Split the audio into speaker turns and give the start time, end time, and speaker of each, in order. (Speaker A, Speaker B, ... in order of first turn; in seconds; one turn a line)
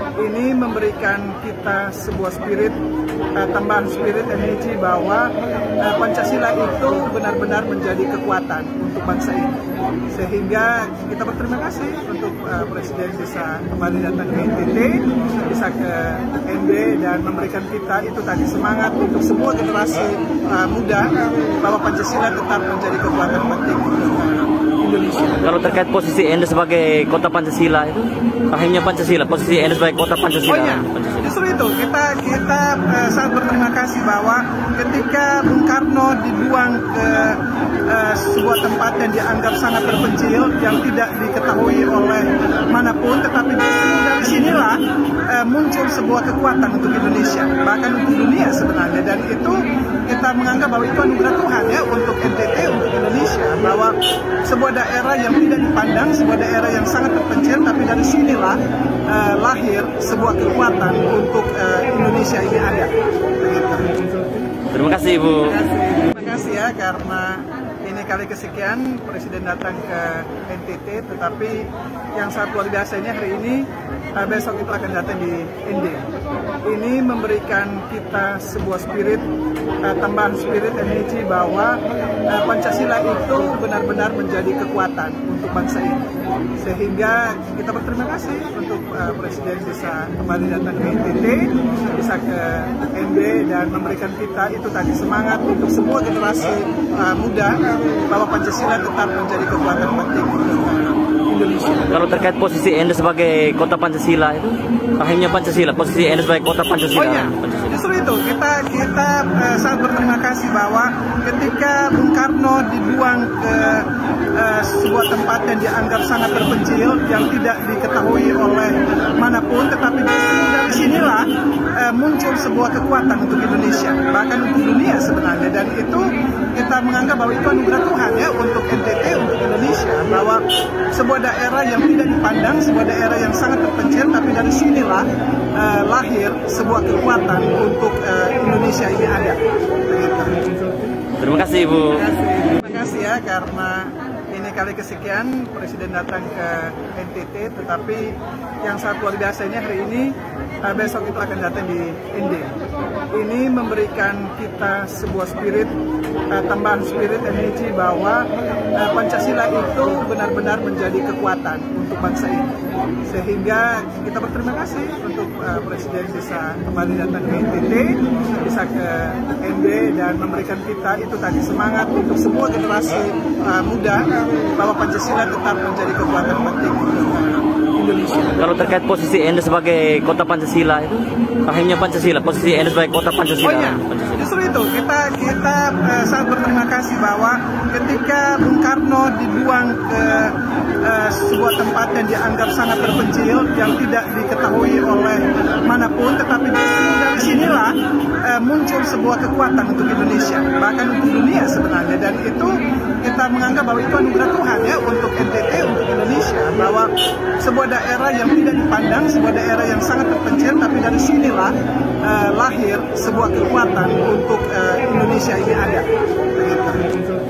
Speaker A: 0.2-2.8
Speaker A: 3.3-25.3
Speaker B: 25.3-31.3
Speaker A: 30.5-64.0
Speaker B: 64.7-65.5
Speaker A: 65.4-76.1
Speaker A: 76.6-79.3
Speaker A: 79.8-86.0
Speaker A: 86.6-102.0
Speaker B: 101.9-107.8
Speaker A: 106.9-140.5
Speaker B: 141.2-142.0
Speaker A: 141.9-152.6
Speaker A: 153.1-155.8
Speaker A: 156.3-162.5
Speaker A: 163.0-178.4
Speaker B: 178.3-184.3
Speaker A: 183.4-216.9